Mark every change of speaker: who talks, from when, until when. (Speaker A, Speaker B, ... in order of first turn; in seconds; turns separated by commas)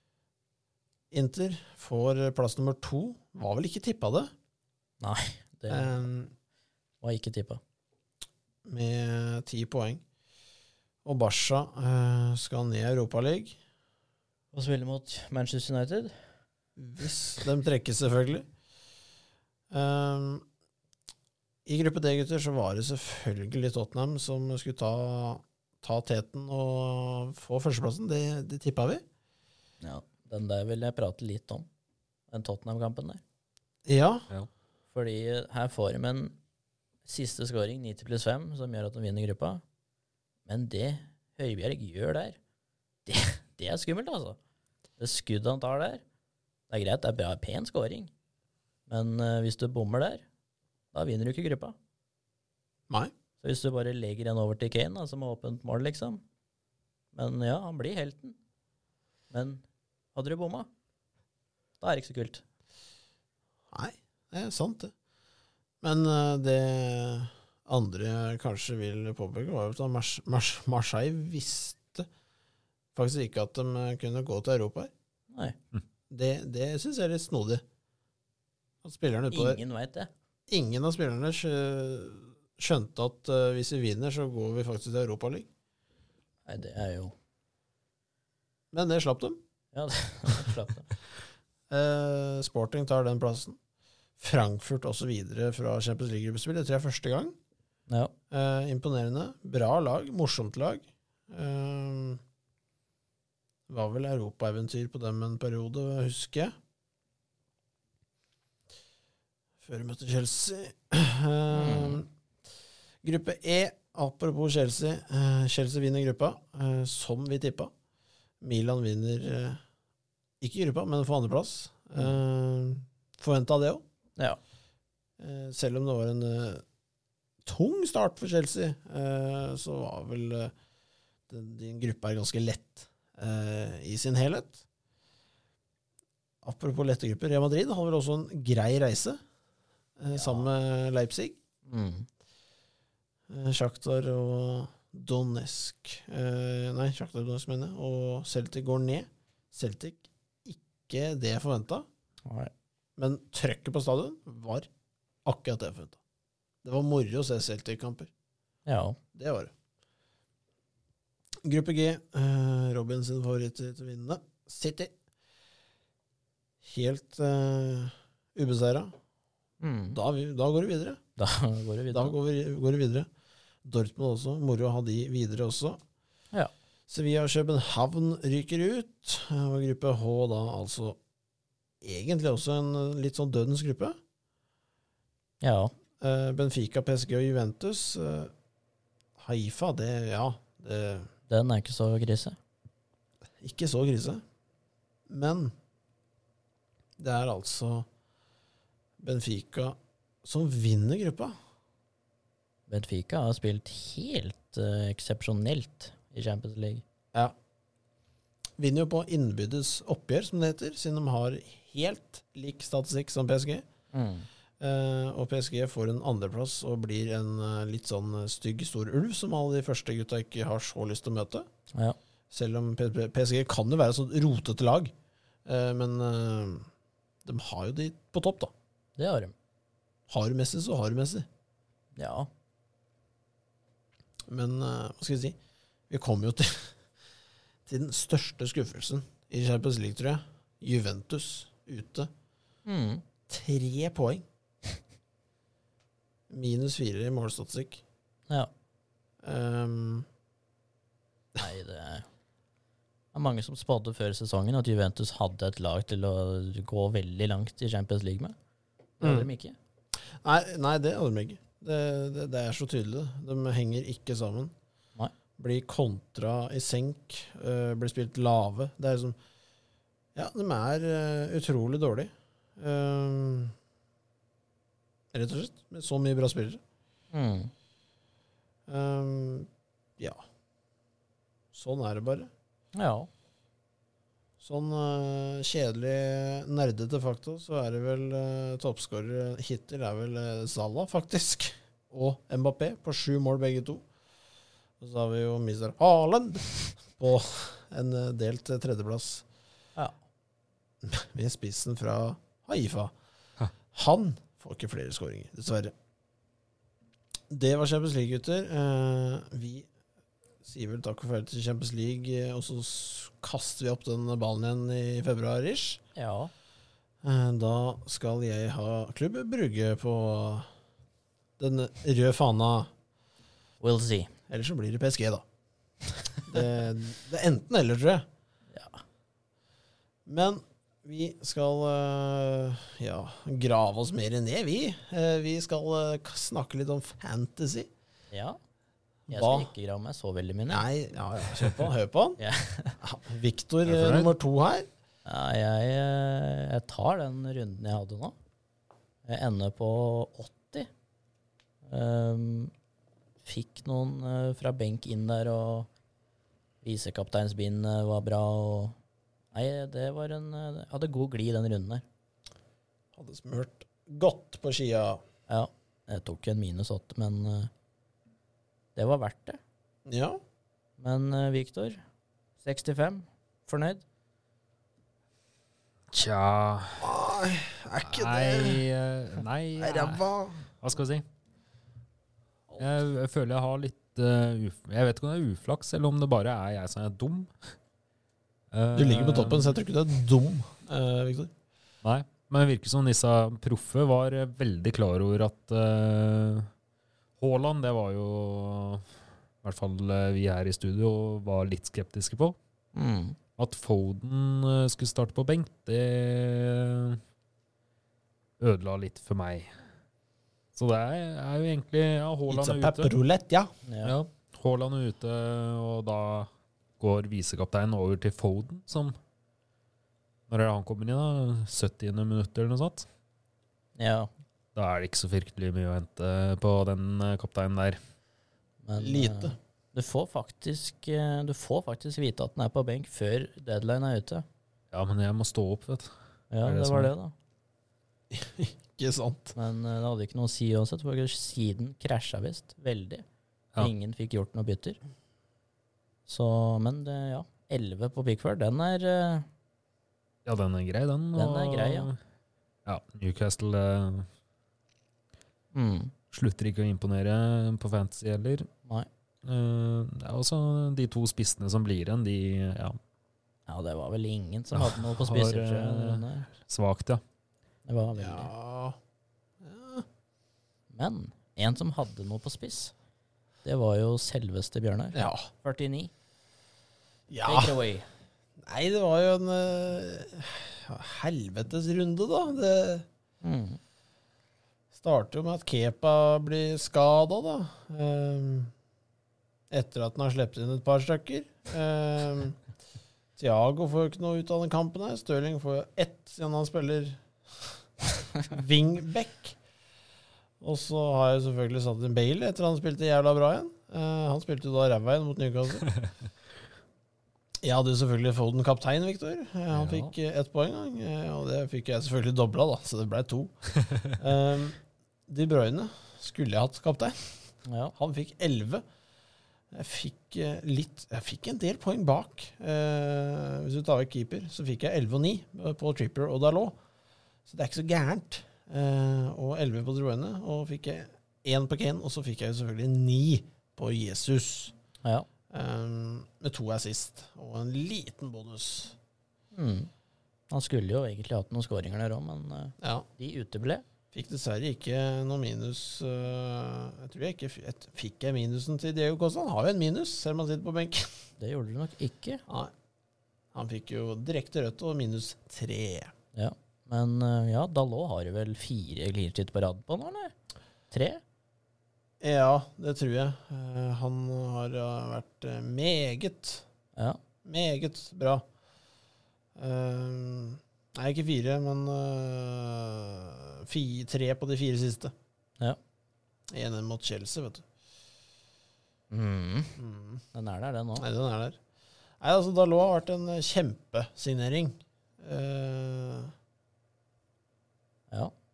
Speaker A: 1.1-4.3, Speaker B: 5.0-6.0, Speaker A: 5.7-6.3, Speaker B: 7.0-7.6, Speaker A: 8.7-10.0, Speaker A: 11.1-13.6, Speaker B: 14.5-16.1, Speaker A: 16.8-18.5, Speaker A: 19.7-20.4, Speaker A: 21.6-29.0, Speaker B: 29.8-31.7, Speaker B: 32.3-33.2, Speaker A: 33.9-34.3, Speaker B: 34.9-36.4, Speaker B: 37.0-39.6, Speaker B: 40.5-42.4, Speaker B: 43.1-44.4, Speaker B: 45.0-46.0, Speaker B: 46.7-48.1, Speaker B: 48.9-50.2, Speaker B: 50.9-51.8, Speaker B: 53.4-56.2, Speaker B: 57.1-58.4, Speaker B: 59.3-59.6, Speaker B: 60.1-60.7, Speaker B: 61.8-62.4, Speaker A: 63.7-64.9, Speaker A: 65.8-72.1, Speaker A: 73.0-74.9, Speaker B: 75.3-75.6, Speaker A: 76.1-77.6, Speaker A: 78.8-79.6, Speaker B: 79.3-80.1, Speaker A: 80.5-85.5, Speaker B: 86.5-87.1, Speaker A: 88.7-89.4, Speaker B: 89.7-90.9, Speaker A: 91.7-93.6, Speaker A: 94.2-97.3, Speaker A: 98.3-102.2, Speaker A: 103.7-106.5, Speaker A: 109.6-112.1, Speaker B: 111.5-112.0, Speaker A: 113.0-117.7, Speaker A: 118.4-119.6, Speaker A: 120.4-123.8, Speaker A: 125.2-126.6, Speaker A: 127.5-130.5, Speaker A: 131.3-134.6, Speaker A: 136.4-139.2, Speaker A: 140.0-141.4, Speaker B: 140.1-140.5, Speaker B: 141.7-142.1, Speaker A: 143.3-151.9, Speaker B: 152.3-152.5, Speaker A: 153.0-154.7, Speaker A: 155.2-156.0, Speaker A: 156.6-158.1, Speaker B: 158.7-159.0, Speaker A: 159.2-159.5, Speaker A: 161.4-164.9, Speaker A: 166.6-168.9, Speaker B: 169.6-170.0, Speaker A: 169.9-171.0, Speaker B: 171.2-172.2, Speaker A: 171.9-173.1, Speaker A: 173.7-175.8, Speaker A: 176.9-181.0, Speaker A: 181.8-184.0, Speaker B: 185.4-185.7, Speaker A: 186.0-188.3, Speaker A: 189.2-191.1, Speaker B: 191.3-192.4, Speaker A: 193.4-194.2, Speaker A: 195.1-195.5, Speaker A: 197.0-197.9, Speaker A: 199.0-201.4, Speaker B: 202.7-206.8, Speaker A: 208.6-213.6, Speaker B: 213.9-214.3, Speaker A: 214.6-221.5, Speaker A: 222.3-224.9, Speaker A: 225.5-226.7, Speaker A: 227.2-228.5, Speaker B: 229.0-229.3, Speaker A: 230.1-231.3, Speaker B: 232.0-232.3, Speaker A: 234.3-235.4, Speaker A: 235.9-236.8, Speaker A: 237.7-242.1, Speaker B: 242.7-243.0, Speaker A: 243.3-244.2, Speaker A: 246.3-247.8, Speaker A: 249.2-250.1, Speaker B: 251.4-252.1, Speaker B: 253.1-258.4, Speaker B: 259.0-259.6, Speaker A: 259.0-259.3, Speaker A: 260.0-264.5, Speaker A: 265.4-269.2, Speaker A: 270.1-273.6, Speaker A: 275.1-276.6, Speaker B: 277.1-277.5, Speaker A: 278.7-280.2, Speaker A: 281.5-282.3, Speaker B: 282.8-283.1, Speaker A: 284.4-293.9, Speaker A: 294.8-299.2, Speaker A: 300.8-302.9, Speaker A: 303.7-305.7, Speaker A: 307.3-309.7, Speaker A: 310.4-315.8, Speaker B: 316.0-316.3, Speaker A: 317.0-320.5, Speaker A: 321.4-322.7, Speaker B: 323.6-324.1, Speaker A: 324.3-325.2, Speaker A: 326.3-328.1, Speaker B: 328.5-328.8, Speaker A: 330.1-337.7, Speaker B: 338.1-338.4, Speaker A: 339.1-339.5, Speaker B: 339.1-340.7, Speaker A: 340.5-342.2, Speaker B: 342.2-342.8, Speaker A: 342.8-344.7, Speaker C: 343.7-344.1, Speaker B: 345.1-348.1, Speaker B: 349.1-350.7, Speaker B: 351.7-352.5, Speaker B: 353.2-355.7, Speaker B: 356.6-358.8, Speaker B: 359.3-361.8, Speaker A: 362.9-365.0, Speaker B: 365.3-367.5, Speaker B: 368.8-369.4, Speaker A: 369.9-370.2, Speaker B: 370.8-371.8, Speaker B: 372.4-373.8, Speaker C: 375.9-376.9, Speaker A: 376.8-378.6, Speaker C: 377.8-380.0, Speaker A: 379.6-380.5, Speaker C: 380.6-381.1, Speaker C: 382.6-387.3, Speaker C: 388.5-389.6, Speaker A: 388.8-391.3, Speaker C: 391.8-396.5, Speaker C: 397.2-402.4, Speaker B: 402.8-403.2, Speaker C: 403.4-407.0, Speaker C: 408.4-409.6, Speaker C: 410.6-412.9, Speaker A: 412.3-413.5, Speaker B: 413.6-413.9, Speaker C: 413.8-419.0, Speaker C: 420.3-422.9, Speaker B: 423.8-424.1, Speaker C: 424.6-427.8, Speaker B: 428.6-434.2, Speaker A: 428.8-429.4, Speaker C: 434.7-435.9, Speaker B: 436.3-437.1, Speaker C: 436.4-436.9, Speaker A: 438.1-439.4, Speaker B: 439.4-443.1, Speaker B: 443.6-444.8, Speaker B: 446.1-449.3, Speaker C: 450.2-452.0, Speaker B: 451.1-451.9, Speaker C: 452.7-454.1, Speaker B: 455.5-455.9, Speaker C: 456.1-458.5, Speaker C: 459.2-462.8, Speaker B: 463.5-466.3, Speaker C: 464.5-467.0, Speaker B: 467.7-468.3, Speaker A: 468.0-468.8, Speaker A: 469.4-469.9, Speaker B: 470.7-472.7, Speaker B: 473.4-475.9, Speaker A: 474.9-475.3, Speaker A: 477.1-477.6, Speaker B: 477.2-477.9, Speaker A: 478.4-482.9, Speaker B: 483.2-483.6, Speaker A: 484.7-488.5, Speaker A: 489.5-492.4, Speaker A: 493.2-497.6, Speaker A: 498.2-499.4, Speaker A: 500.4-505.7, Speaker A: 507.4-518.6, Speaker C: 509.5-509.9, Speaker B: 517.5-517.7, Speaker A: 519.5-526.6, Speaker A: 527.3-534.5, Speaker A: 535.3-538.8, Speaker B: 539.3-539.7, Speaker B: 540.3-543.6, Speaker A: 542.6-542.9, Speaker A: 543.9-551.0, Speaker B: 551.2-552.2, Speaker A: 552.3-552.5, Speaker A: 553.3-555.9, Speaker B: 556.1-560.1, Speaker B: 560.7-561.0, Speaker A: 562.0-566.5, Speaker A: 567.2-568.2, Speaker A: 569.4-574.9, Speaker A: 576.3-577.5, Speaker B: 578.9-579.6, Speaker A: 579.6-580.0, Speaker B: 580.1-580.9, Speaker A: 580.8-581.4, Speaker A: 582.0-586.1